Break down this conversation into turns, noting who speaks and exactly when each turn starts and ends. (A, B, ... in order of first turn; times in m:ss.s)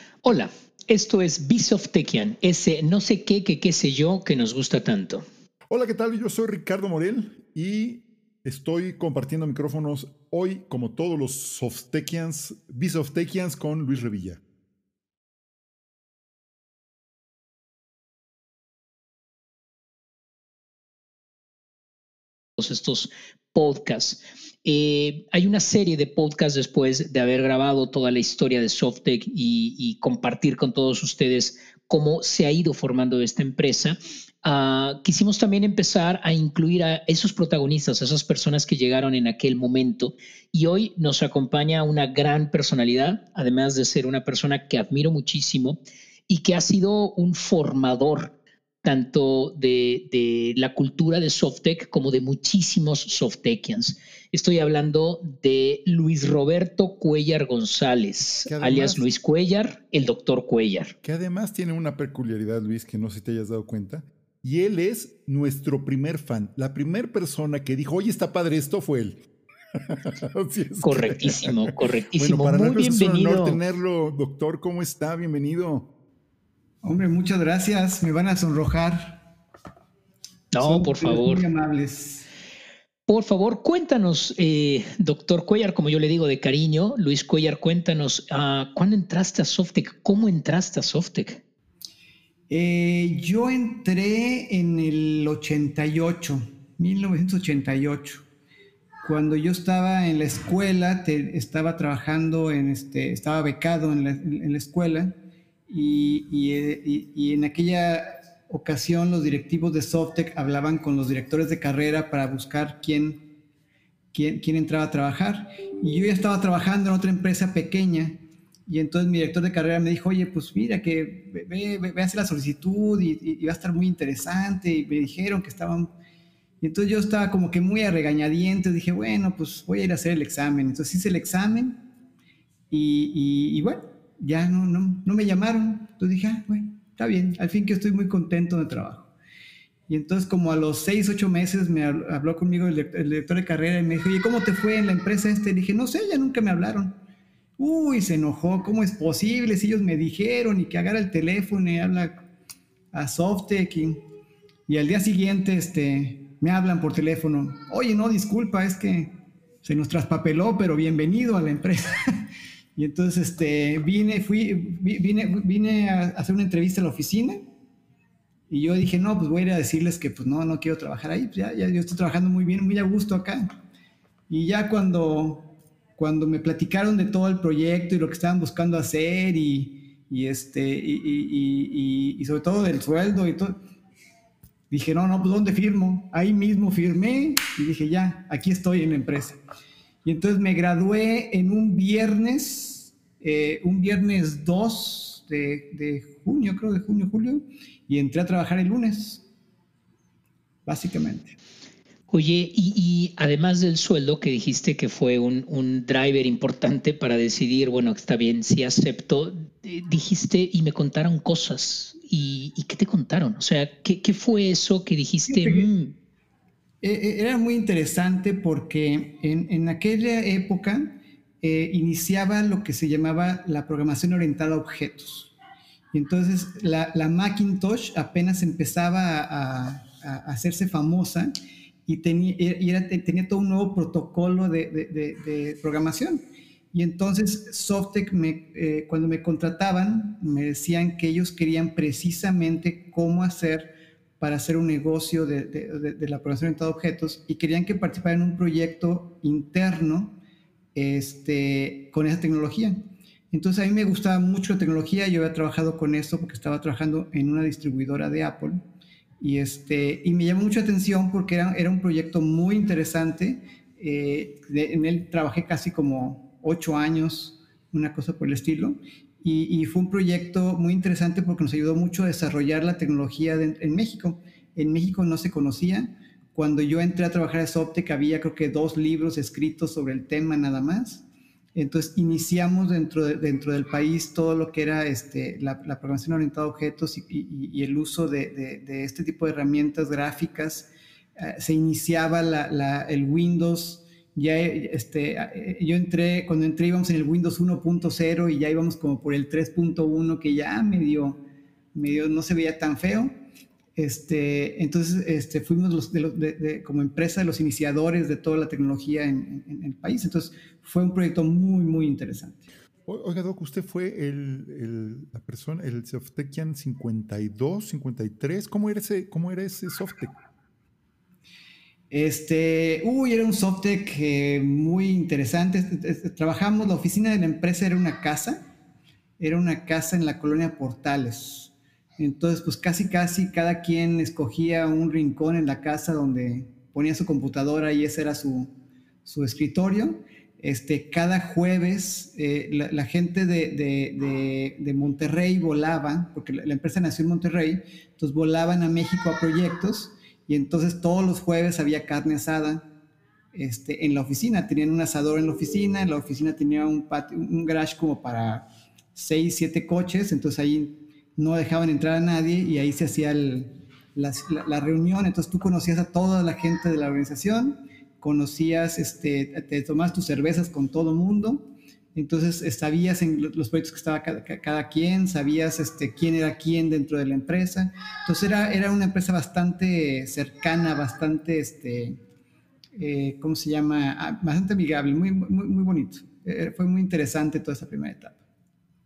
0:00.2-0:05.2 A
0:05.7-0:14.4 B
0:22.6-0:48.3 A
0:48.8-1:00.9 A
0:58.5-0:59.1 B
1:01.0-1:09.2 B
1:09.8-1:15.9 B
1:10.8-1:13.6 A
1:16.8-1:19.2 C
1:20.5-1:21.4 A
1:20.6-1:22.3 C
1:23.1-1:31.4 A
1:32.5-1:38.2 C
1:39.0-1:45.2 C
1:45.7-1:53.2 C
1:54.1-2:05.9 C
2:06.6-2:11.8 C
2:12.7-2:19.1 C
2:19.9-2:27.0 C
2:27.6-2:32.2 C
2:32.9-2:34.0 C
2:34.7-2:39.1 C
2:39.6-2:41.9 C
2:42.8-2:47.4 C
2:48.5-2:53.5 C
2:54.3-2:55.4 C
2:56.0-3:03.6 C
3:04.7-3:09.4 C
3:10.0-3:19.2 C
3:20.7-3:21.4 C
3:22.1-3:36.0 A
3:35.3-3:35.7 C
3:36.8-3:45.3 C
3:45.9-3:51.3 C
3:51.8-3:56.2 C
3:56.7-4:10.2 C
4:10.8-4:18.6 C
4:19.2-4:41.0 C
4:41.6-5:01.2 C
5:01.7-5:03.2 C
5:03.8-5:12.5 C
5:12.9-5:20.1 B
5:21.9-5:28.4 C
5:29.2-5:38.5 C
5:39.0-5:52.7 C
5:53.3-6:22.0 C
6:22.8-6:28.2 C